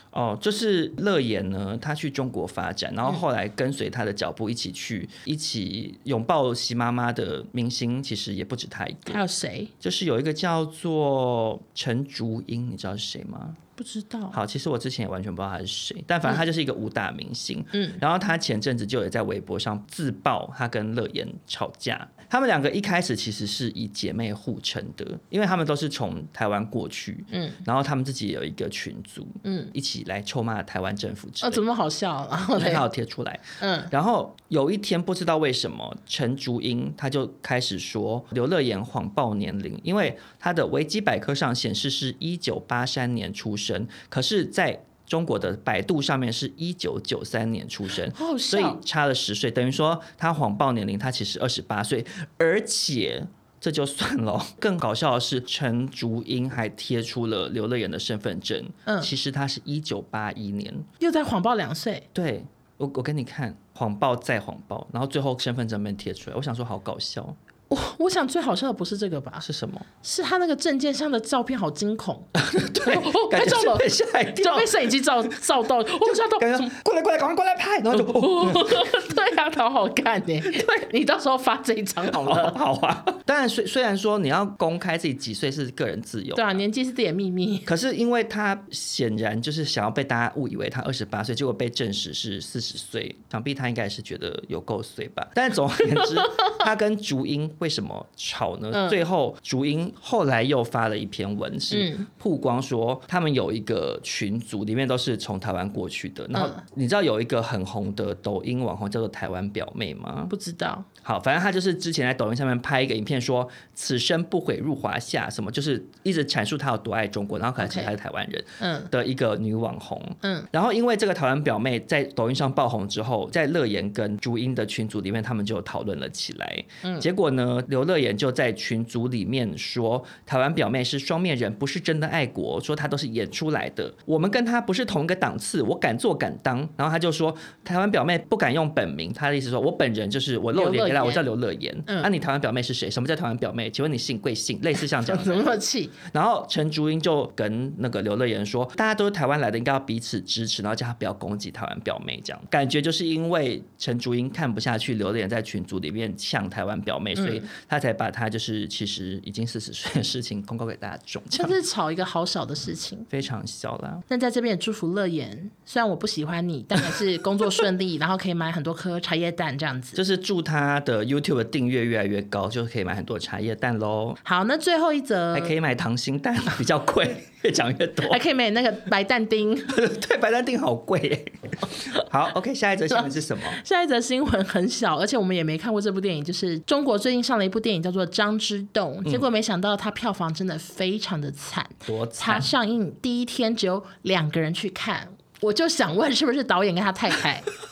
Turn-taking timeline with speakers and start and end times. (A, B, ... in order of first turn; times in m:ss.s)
0:00.1-0:09.2 A
0:09.1-0:09.7 B
0:09.8-0:13.6 A
0:13.8-0:14.4 B
0:14.3-0:31.6 A
0:17.7-0:18.0 B
0:27.3-0:27.6 B
0:29.4-0:29.7 B
0:31.4-0:32.8 B
0:32.6-1:00.9 A
0:33.6-0:33.9 B
0:48.1-0:48.8 B
1:01.0-1:02.1 B
1:02.2-1:07.4 A
1:07.7-1:09.5 B
1:09.4-1:09.9 A
1:10.0-1:16.7 B
1:12.4-1:14.9 A
1:16.0-1:19.1 A
1:17.9-1:22.6 B
1:22.0-1:26.6 A
1:26.4-1:27.7 B
1:27.7-1:50.3 A
1:41.7-1:42.1 B
1:46.4-1:46.6 B
1:50.3-1:50.9 B
1:51.0-2:41.6 A
1:57.6-1:57.9 B
1:58.6-1:58.9 B
2:00.2-2:00.5 B
2:20.5-2:21.3 B
2:25.0-2:26.0 B
2:37.2-2:37.4 B
2:41.3-2:43.1 B
2:43.1-2:44.0 A
2:44.1-2:50.0 B
2:50.0-2:54.2 A
2:54.2-2:55.5 B
2:55.3-2:58.2 A
2:58.1-2:59.7 B
2:59.7-3:03.6 A
3:02.9-3:17.5 B
3:11.9-3:12.5 A